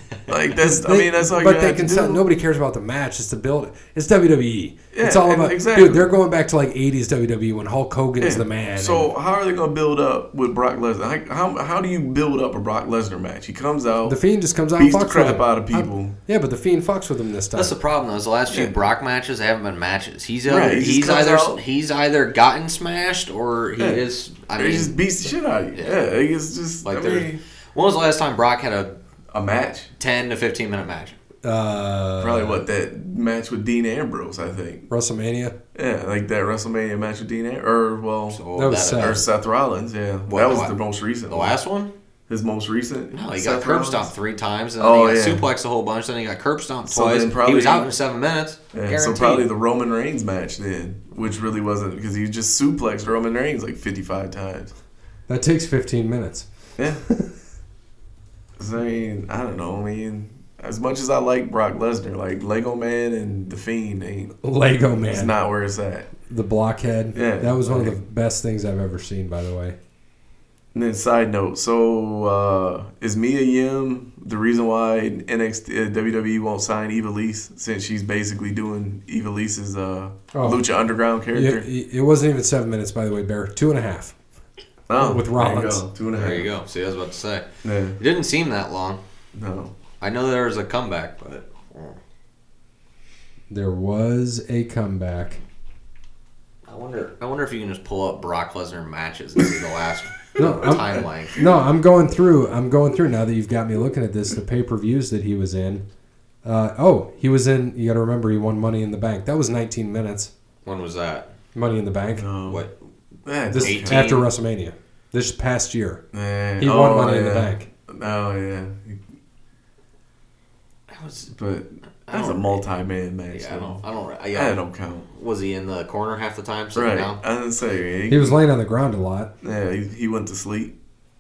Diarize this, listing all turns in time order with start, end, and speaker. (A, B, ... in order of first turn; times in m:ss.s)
0:00.3-0:02.2 A
0:00.6-0:09.1 B
0:04.9-0:06.1 A
0:08.2-0:14.2 A
0:14.1-0:17.7 B
0:14.8-0:16.2 A
0:17.5-0:24.9 C
0:18.5-0:18.7 A
0:20.5-0:21.6 A
0:24.6-0:27.4 A
0:25.7-0:26.0 C
0:26.8-0:29.0 C
0:29.3-0:29.9 A
0:30.0-0:31.2 C
0:31.4-0:32.6 B
0:32.2-0:34.9 A
0:34.9-0:35.6 B
0:35.8-0:38.4 A
0:38.3-0:39.2 C
0:38.6-0:39.2 B
0:39.0-0:41.6 A
0:40.3-0:40.8 C
0:41.3-0:41.9 C
0:42.3-0:44.1 A
0:43.1-0:49.5 C
0:44.8-0:45.4 A
0:46.9-0:47.9 A
0:48.7-0:54.7 A
0:55.3-0:56.5 B
0:56.8-0:57.0 A
0:58.6-1:04.4 A
1:04.4-1:05.3 B
1:05.1-1:06.1 A
1:06.3-1:09.8 B
1:07.1-1:08.0 A
1:10.7-1:21.7 A
1:20.3-1:20.6 B
1:21.3-1:24.2 B
1:24.9-1:26.5 A
1:25.0-1:25.8 B
1:26.2-1:27.5 C
1:27.6-1:28.0 A
1:28.0-1:29.0 C
1:29.3-1:29.7 A
1:30.0-1:32.0 C
1:33.5-1:35.4 B
1:36.7-1:41.4 C
1:40.4-1:45.8 B
1:46.4-1:50.3 B
1:50.6-1:51.3 C
1:51.6-1:52.3 B
1:52.2-1:52.7 A
1:52.5-1:52.8 C
1:53.3-1:54.1 A
1:53.5-1:56.0 B
1:53.6-1:54.3 C
1:56.1-1:59.0 A
1:56.6-1:57.7 B
2:00.9-2:01.3 C
2:01.3-2:03.8 A
2:02.1-2:02.6 C
2:03.3-2:07.2 C
2:04.3-2:05.1 A
2:06.8-2:08.4 A
2:08.1-2:09.3 B
2:09.4-2:10.8 A